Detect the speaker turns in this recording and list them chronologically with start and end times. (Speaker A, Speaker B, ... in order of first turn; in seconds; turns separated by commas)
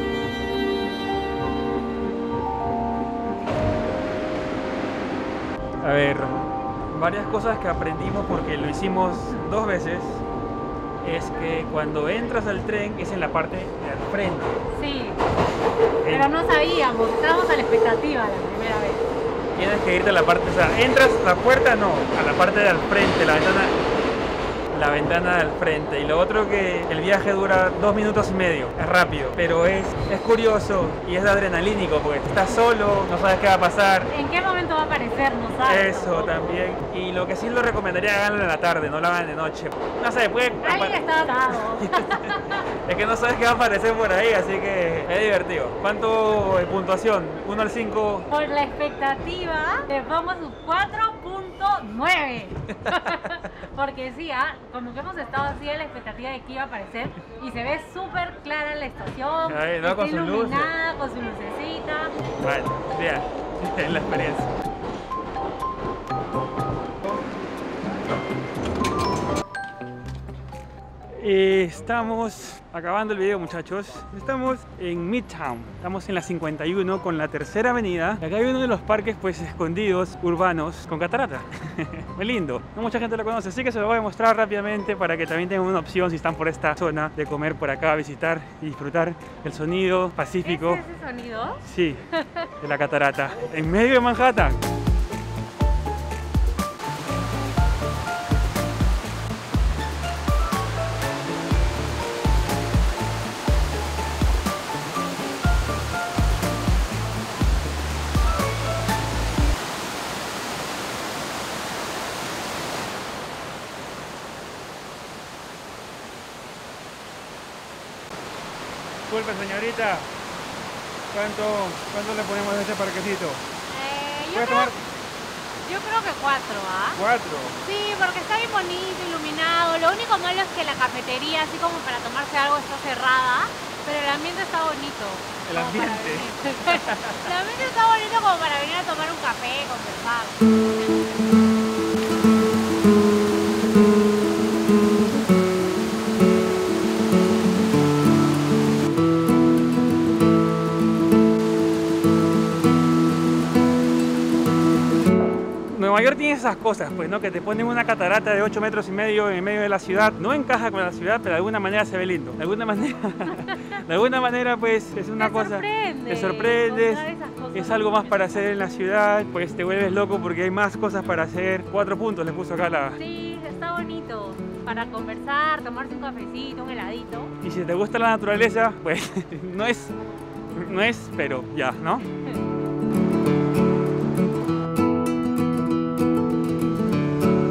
Speaker A: 5.8-10.2, Speaker A: 11.0-14.6, Speaker B: 14.7-15.2, Speaker A: 16.0-16.3, Speaker B: 16.1-19.1, Speaker A: 19.5-23.8, Speaker A: 24.7-34.1, Speaker B: 34.1-36.6, Speaker A: 35.5-48.3, Speaker B: 40.6-42.6, Speaker B: 48.3-62.1, Speaker A: 52.7-53.2, Speaker A: 59.5-60.7, Speaker A: 62.4-64.5, Speaker A: 71.1-90.8, Speaker B: 90.4-92.5, Speaker A: 91.6-92.0, Speaker A: 92.6-94.6, Speaker A: 119.1-120.1, Speaker A: 121.1-123.4, Speaker B: 123.7-124.7, Speaker A: 124.3-124.8, Speaker B: 125.6-127.0, Speaker A: 127.0-127.6, Speaker B: 127.6-140.4, Speaker A: 135.4-137.3, Speaker A: 155.7-173.0, Speaker B: 163.3-163.6, Speaker B: 165.2-168.6, Speaker B: 173.0-177.3, Speaker A: 177.4-179.9, Speaker A: 180.5-182.0